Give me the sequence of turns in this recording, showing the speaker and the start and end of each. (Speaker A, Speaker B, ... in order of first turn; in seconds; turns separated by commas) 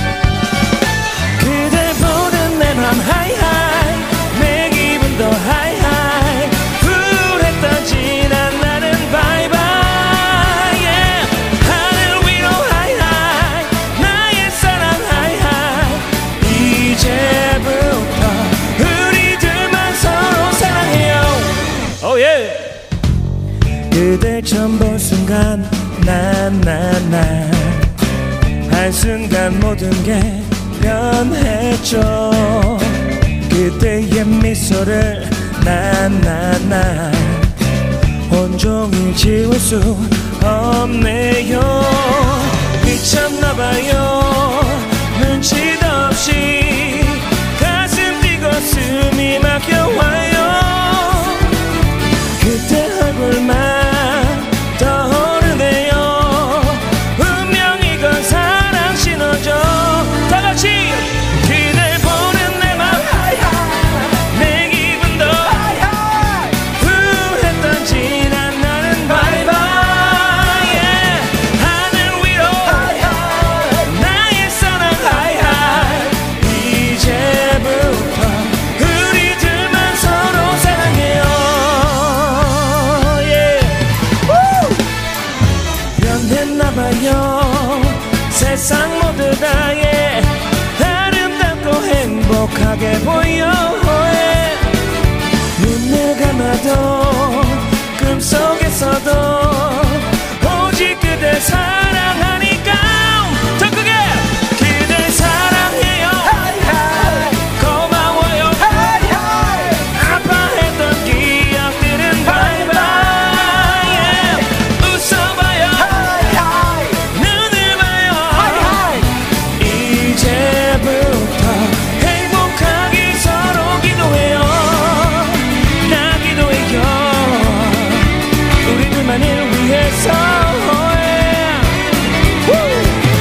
Speaker A: 1.4-22.8, Speaker A: 23.9-27.9, Speaker A: 28.7-32.9, Speaker A: 33.5-37.5, Speaker A: 38.3-51.4, Speaker A: 52.4-63.5, Speaker A: 64.2-66.0, Speaker A: 66.7-83.8, Speaker A: 86.0-94.7, Speaker A: 95.6-109.3, Speaker A: 109.8-119.0, Speaker A: 119.6-128.0, Speaker A: 128.6-131.7